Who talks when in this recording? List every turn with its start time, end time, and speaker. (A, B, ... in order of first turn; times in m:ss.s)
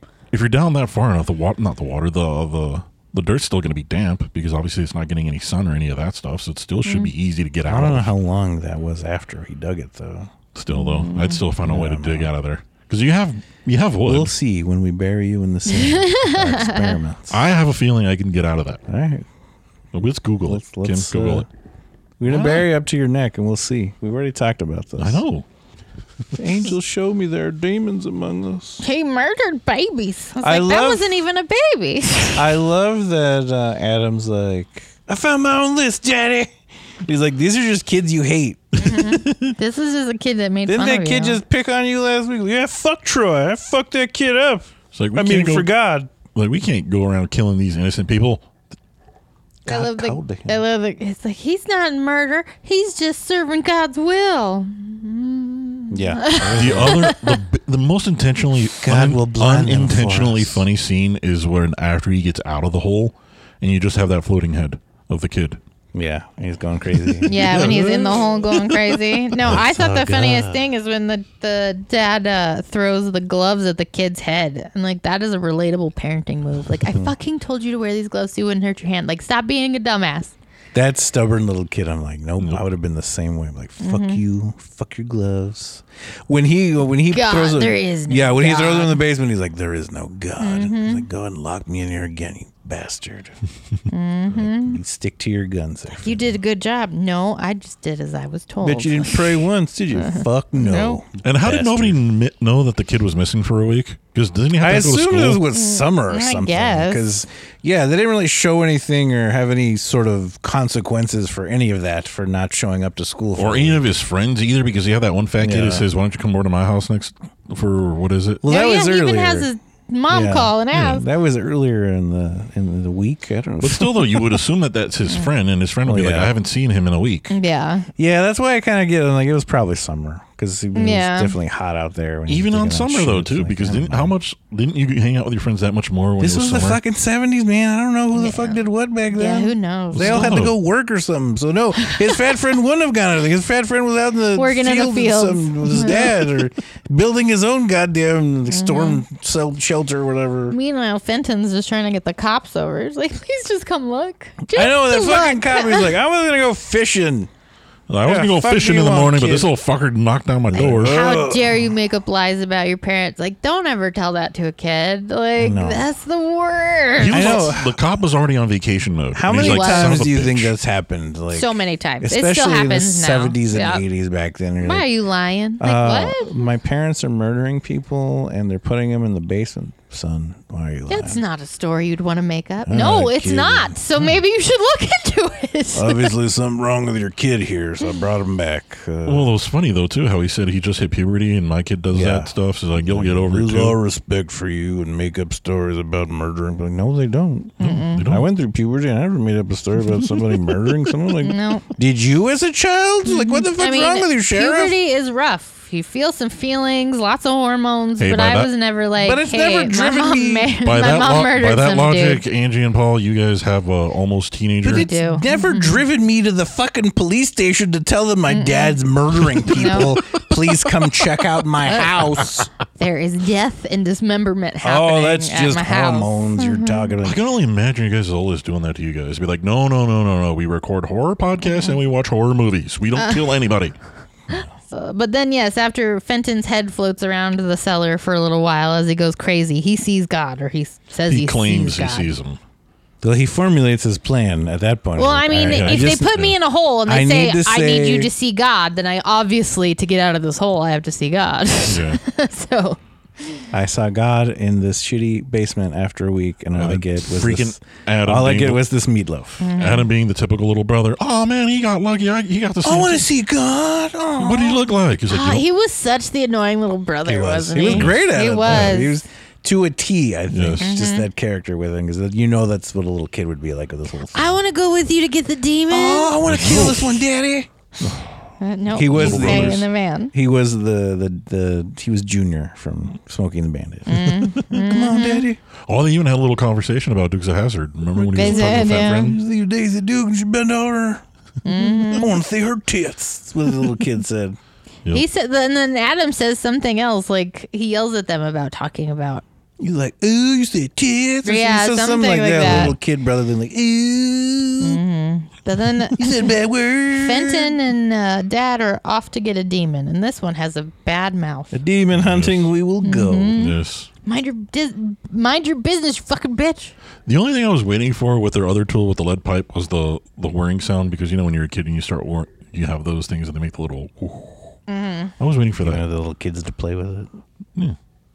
0:00.3-0:08.1 A
0:06.8-0:07.1 B
0:07.6-0:10.3 C
0:10.5-0:14.3 A
0:10.7-0:11.4 B
0:11.6-0:12.3 C
0:14.0-0:17.4 C
0:15.7-0:17.0 B
0:17.3-0:18.8 A
0:18.9-0:19.2 C
0:19.9-0:21.4 A
0:20.5-0:21.5 C
0:22.2-0:25.2 C
0:22.3-0:22.7 A
0:25.0-0:25.4 A
0:26.3-0:28.8 C
0:28.8-0:32.5 B
0:30.4-0:31.1 C
0:32.3-0:36.5 C
0:37.0-0:38.9 C
0:38.8-0:41.4 B
0:39.1-0:39.5 A
0:40.7-0:46.1 C
0:44.9-0:45.7 A
0:46.3-0:48.4 A
0:49.6-0:57.4 B
0:49.7-0:50.6 C
0:55.9-0:57.1 C
0:56.5-1:05.6 A
0:58.8-1:00.6 C
1:05.9-1:08.2 C
1:07.0-1:09.0 A
1:07.2-1:20.3 B
1:09.4-1:10.6 C
1:16.9-1:17.1 C
1:20.7-1:33.3 C
1:23.8-1:24.2 B
1:27.1-1:29.0 B
1:30.4-1:31.0 B
1:33.9-1:34.8 B
1:34.3-1:36.2 C
1:36.0-1:39.4 B
1:38.6-1:42.0 C
1:40.0-1:41.0 B
1:41.2-1:45.4 A
1:44.6-1:53.8 C
1:45.5-1:47.0 B
1:53.4-1:58.4 A
1:55.4-1:55.8 C
1:58.4-1:59.5 C
1:58.4-2:01.0 B
2:00.1-2:04.4 C
2:00.7-2:01.0 A
2:03.6-2:07.3 A
2:05.8-2:06.3 C
2:07.3-2:07.9 B
2:08.0-2:14.1 C
2:10.7-2:11.4 B
2:12.3-2:16.8 A
2:16.2-2:30.5 C
2:18.2-2:18.6 B
2:19.1-2:20.4 B
2:19.9-2:20.6 A
2:21.8-2:22.2 B
2:24.3-2:26.3 B
2:28.5-2:29.0 B
2:30.5-2:35.9 B
2:34.5-2:37.3 C
2:37.9-2:41.0 A
2:38.0-2:39.5 C
2:40.5-2:41.5 C
2:40.8-2:47.4 B
2:45.4-2:45.9 C
2:47.0-2:50.6 A
2:47.0-2:47.8 C
2:49.1-2:54.9 C
2:49.3-2:49.9 B
2:51.3-2:53.8 B
2:54.6-2:56.3 B
2:55.6-3:01.2 C
3:00.9-3:06.1 B
3:02.6-3:03.8 C
3:05.7-3:09.3 C
3:09.0-3:13.8 A
3:11.9-3:24.8 C
3:17.6-3:18.0 B
3:17.6-3:18.3 A
3:21.2-3:21.7 B
3:23.0-3:32.2 B
3:28.0-3:28.5 A
3:29.0-3:30.5 C
3:30.6-3:34.9 A
3:34.6-3:42.5 C
3:34.6-3:35.8 B
3:38.3-3:38.8 B
3:39.4-3:40.0 B
3:41.6-3:42.1 B
3:42.8-3:46.9 B
3:44.6-3:47.2 C
3:47.0-3:53.7 A
3:51.5-3:51.8 B
3:53.0-3:53.2 B
3:54.3-4:02.1 B
4:01.1-4:02.4 A
4:03.0-4:06.3 C
4:05.0-4:12.8 B
4:05.4-4:06.3 A
4:06.8-4:08.1 C
4:11.7-4:12.0 A
4:13.5-4:19.5 C
4:16.6-4:18.6 A
4:19.4-4:19.9 B
4:19.6-4:23.1 A
4:22.6-4:24.6 C
4:24.2-4:25.4 A
4:25.1-4:29.0 B
4:27.0-4:34.3 C
4:27.7-4:28.8 A
4:30.3-4:30.7 A
4:30.6-4:31.1 B
4:34.1-4:36.2 B
4:35.7-4:37.5 C
4:36.2-4:37.0 A
4:38.4-4:40.1 B
4:38.7-4:45.4 C
4:38.9-4:39.6 A
4:43.9-4:45.3 B
4:45.7-4:49.2 A
4:48.0-4:54.4 C
4:48.1-4:49.1 B
4:51.4-4:52.2 B
4:54.9-4:59.2 B
4:59.6-5:04.8 C
5:01.2-5:02.7 B
5:02.4-5:02.7 A
5:04.6-5:06.3 B
5:05.9-5:07.6 C
5:06.9-5:11.6 B
5:11.5-5:13.4 C
5:11.9-5:12.5 A
5:12.8-5:16.7 B
5:13.4-5:13.9 A
5:17.0-5:24.6 A
5:24.7-5:25.1 B
5:25.2-5:25.8 A
5:25.6-5:27.1 C